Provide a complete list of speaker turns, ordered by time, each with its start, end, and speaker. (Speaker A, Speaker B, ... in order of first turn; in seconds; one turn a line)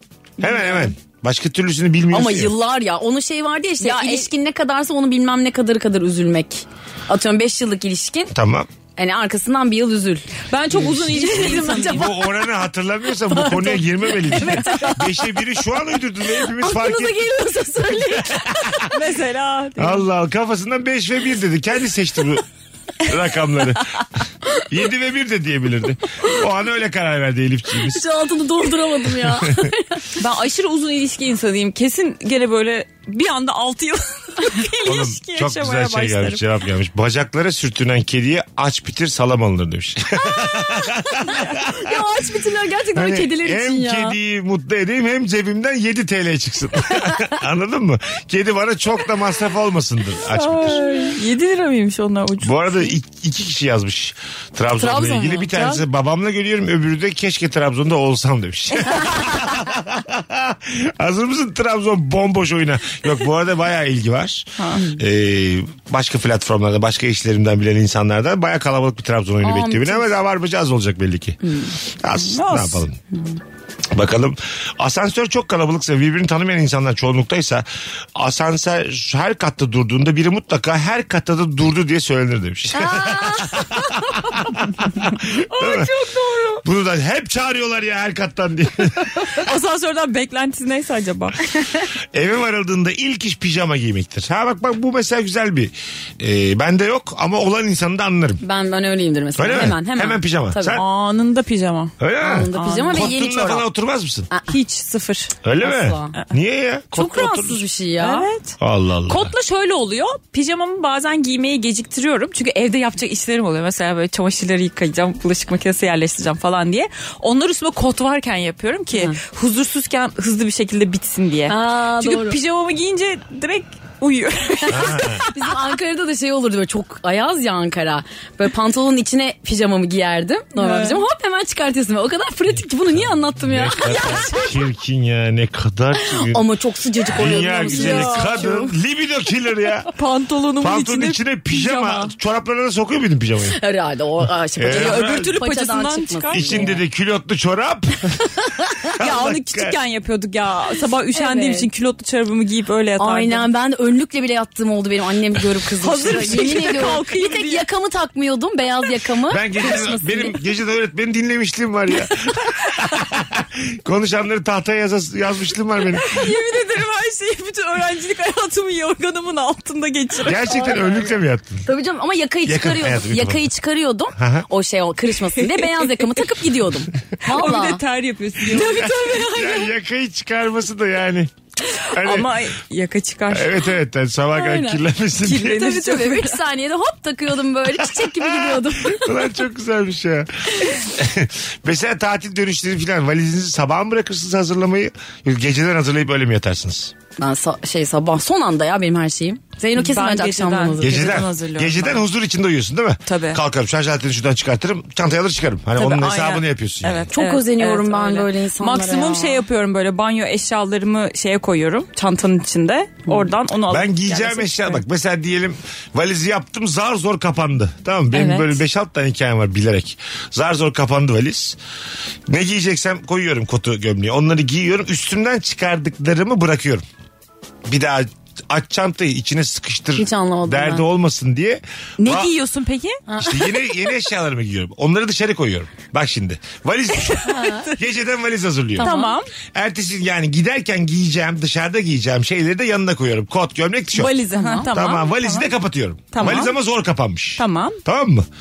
Speaker A: 0.4-0.9
Speaker B: 0.4-2.5
Speaker C: 2.1-8.3
Speaker A: 3.8-4.3
Speaker B: 8.3-8.7
Speaker C: 9.0-12.3
Speaker A: 10.5-12.1
Speaker B: 11.8-17.3
Speaker C: 13.3-15.4
Speaker C: 16.4-18.8
Speaker B: 18.0-18.9
Speaker A: 18.8-20.1
Speaker B: 19.8-22.4
Speaker B: 23.0-23.9
Speaker B: 24.7-28.1
Speaker C: 27.9-30.0
Speaker B: 29.2-29.7
Speaker A: 30.2-36.4
Speaker B: 34.8-42.0
Speaker C: 41.2-44.2
Speaker B: 42.9-50.9
Speaker A: 50.3-53.0
Speaker C: 50.8-51.1
Speaker B: 52.4-73.0
Speaker A: 54.8-55.8
Speaker A: 64.6-64.8
Speaker C: 69.4-70.1
Speaker C: 71.4-71.7
Speaker A: 72.2-72.8
Speaker B: 73.9-85.9
Speaker C: 82.7-84.3
Speaker A: 85.6-86.6
Speaker B: 86.6-89.2
Speaker A: 89.3-91.5
Speaker B: 92.1-98.4
Speaker C: 98.4-100.8
Speaker B: 99.4-100.8
Speaker A: 100.7-102.0
Speaker B: 102.0-104.3
Speaker C: 102.2-103.7
Speaker A: 102.5-103.1
Speaker A: 104.5-105.4
Speaker B: 105.4-107.6
Speaker C: 105.6-106.2
Speaker A: 107.0-108.6
Speaker C: 107.0-108.3
Speaker B: 108.6-109.3
Speaker A: 109.1-125.5
Speaker C: 121.5-122.4
Speaker B: 124.7-125.3
Speaker C: 125.3-134.3
Speaker A: 130.6-131.0
Speaker B: 133.4-136.4
Speaker A: 133.8-134.6
Speaker C: 136.0-138.7
Speaker B: 137.1-139.9
Speaker A: 137.7-138.5
Speaker A: 139.9-142.1
Speaker B: 140.6-143.6
Speaker C: 143.5-146.8
Speaker B: 144.6-145.3
Speaker A: 144.7-146.7
Speaker B: 146.3-148.2
Speaker C: 148.6-148.8
Speaker B: 149.0-149.8
Speaker A: 149.0-153.5
Speaker C: 151.2-151.7
Speaker C: 153.0-160.4
Speaker A: 155.8-157.7
Speaker B: 159.3-166.3
Speaker A: 166.0-171.1
Speaker B: 170.2-171.7
Speaker C: 170.5-170.9
Speaker C: 171.7-177.8
Speaker B: 172.5-173.4
Speaker B: 174.2-174.5
Speaker A: 175.4-176.2
Speaker A: 177.2-179.2
Speaker C: 178.5-179.7
Speaker B: 178.6-181.3
Speaker A: 181.7-183.7
Speaker B: 181.9-182.4
Speaker B: 183.3-185.7
Speaker C: 184.3-184.8
Speaker A: 185.2-186.4
Speaker C: 185.4-189.2
Speaker B: 187.8-196.9
Speaker C: 197.2-201.2
Speaker A: 199.8-202.1
Speaker B: 200.8-207.1
Speaker A: 203.1-203.4
Speaker A: 205.8-214.8
Speaker C: 207.1-209.4
Speaker B: 213.7-221.6
Speaker A: 218.1-218.6
Speaker B: 222.3-226.8
Speaker B: 227.7-232.3
Speaker C: 230.0-230.9
Speaker A: 232.0-233.0
Speaker C: 233.1-233.7
Speaker B: 233.2-238.9
Speaker A: 237.0-237.7
Speaker C: 237.3-237.7
Speaker C: 238.8-239.1
Speaker A: 238.8-239.3
Speaker B: 239.5-244.1
Speaker A: 243.9-245.5
Speaker C: 244.3-244.7
Speaker B: 244.7-248.3
Speaker A: 246.1-246.6
Speaker A: 247.4-247.8